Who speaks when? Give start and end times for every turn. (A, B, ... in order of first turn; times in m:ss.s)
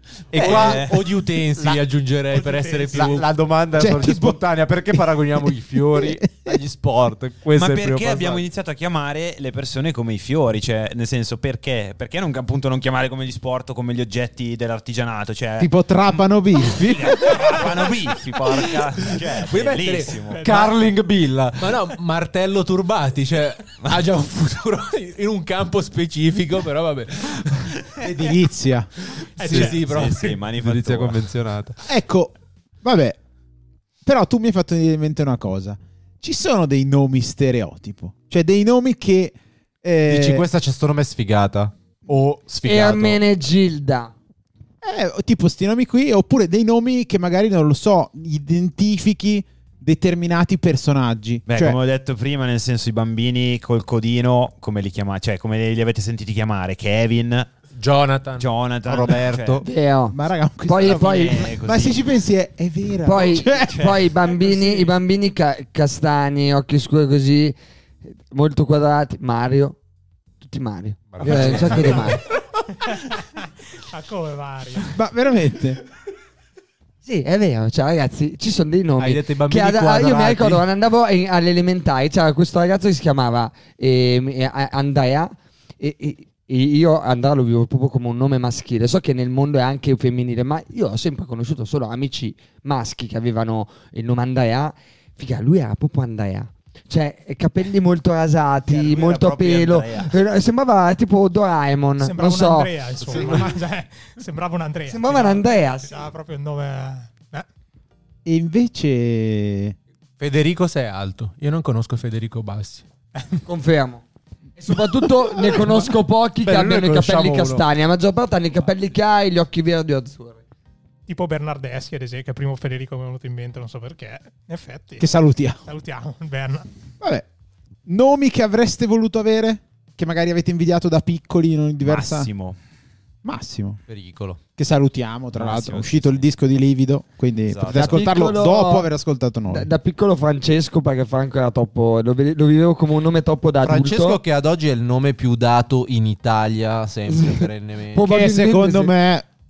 0:00.3-0:01.0 A
0:00.3-0:03.2 B
0:00.4-0:01.0 C
0:02.3-0:03.3 D
0:03.0-0:08.4 A
0:03.7-0:06.6 E
0:07.5-0:15.7 C
0:15.6-0:17.3 E
0:16.7-0:20.4 C
0:19.1-0:20.4 B
0:20.3-0:20.9 D
0:20.4-0:21.8 A
0:21.6-0:27.9 B
0:28.0-0:28.9 E
0:29.4-0:30.1 D
0:29.4-0:30.4 B
0:29.4-0:29.8 A
0:29.8-0:31.3 C
0:30.5-0:31.8 A
0:31.8-0:33.2 E
0:34.0-0:40.4 E
0:40.1-0:43.2 A
0:42.6-0:44.1 F
0:44.8-0:51.8 E
0:51.5-0:57.5 C
0:57.8-0:58.5 B
0:58.4-0:59.6 C
0:58.8-0:59.6 A
0:59.6-1:01.5 F
1:00.1-1:03.9 E
1:00.7-1:02.0 C
1:03.0-1:07.6 F
1:03.2-1:04.0 C
1:04.2-1:04.9 D
1:08.3-1:09.8 F
1:10.4-1:12.2 F
1:11.1-1:12.1 A
1:12.8-1:15.0 D
1:14.9-1:15.8 E
1:17.0-1:43.4 F
1:19.0-1:20.6 A
1:38.7-1:40.1 C
1:42.0-1:47.5 D
1:44.9-1:45.9 F
1:48.2-1:49.8 E
1:50.2-1:52.8 B
1:53.4-1:54.0 F
1:54.6-2:00.4 F
1:55.5-1:57.7 A
2:01.1-2:05.1 D
2:05.0-2:05.6 E
2:05.6-2:06.7 D
2:07.0-2:07.3 E
2:07.9-2:12.3 E
2:11.8-2:12.6 C
2:13.2-2:13.8 E
2:13.9-2:14.4 A
2:14.6-2:19.7 E
2:15.3-2:16.3 C
2:17.4-2:18.1 C
2:17.7-2:18.9 F
2:19.5-2:24.2 F
2:23.6-2:28.1 A
2:27.1-2:28.9 F
2:28.0-2:29.2 E